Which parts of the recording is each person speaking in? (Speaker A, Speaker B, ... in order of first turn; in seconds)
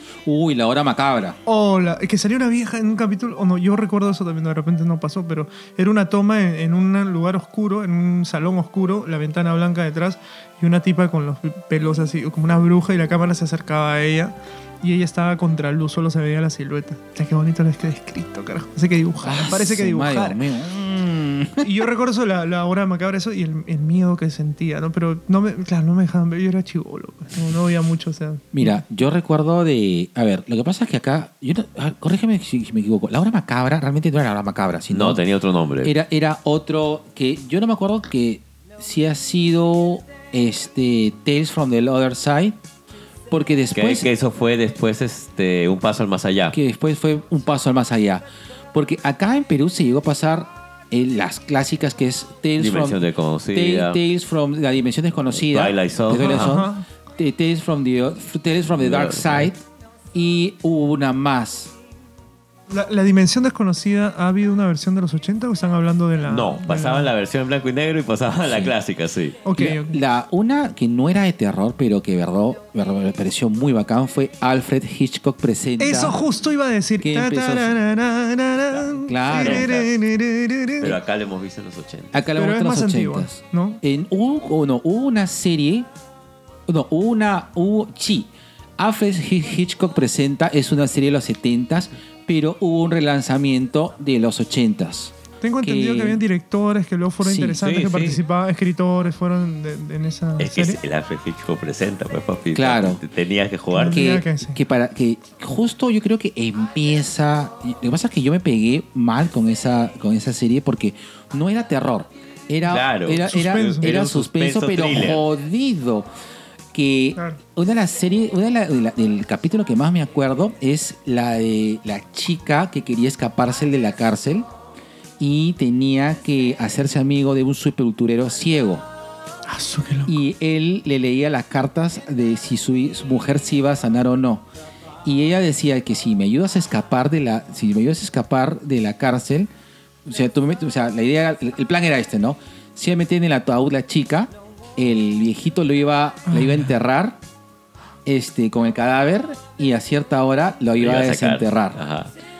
Speaker A: 0.2-1.4, 19.2-21.8, 28.5-35.2, 35.8-42.6, 43.3-44.1, 46.5-61.7, 68.5-68.7, 69.5-76.2, 77.0-77.8, 79.1-79.8, 82.1-85.9, 86.7-96.2, 97.2-97.6, 102.5-103.0, 103.8-116.1, 116.7-124.5, 125.2-128.8, 130.1-134.4, 135.0-139.5, 140.0-147.2, 148.1-151.8
Speaker B: 1.4-20.4, 21.6-28.8, 56.2-56.8, 62.7-67.1, 69.4-70.0, 75.8-81.0, 82.3-83.8, 95.4-100.8, 103.7-104.6, 113.2-114.1, 129.5-130.1, 146.3-146.7
Speaker C: 34.9-36.0, 43.7-46.6, 52.6-54.0, 55.3-56.6, 58.7-59.5, 66.2-69.4, 78.7-79.9, 80.8-82.2, 97.6-98.2, 100.4-104.1, 112.6-115.2, 150.8-152.1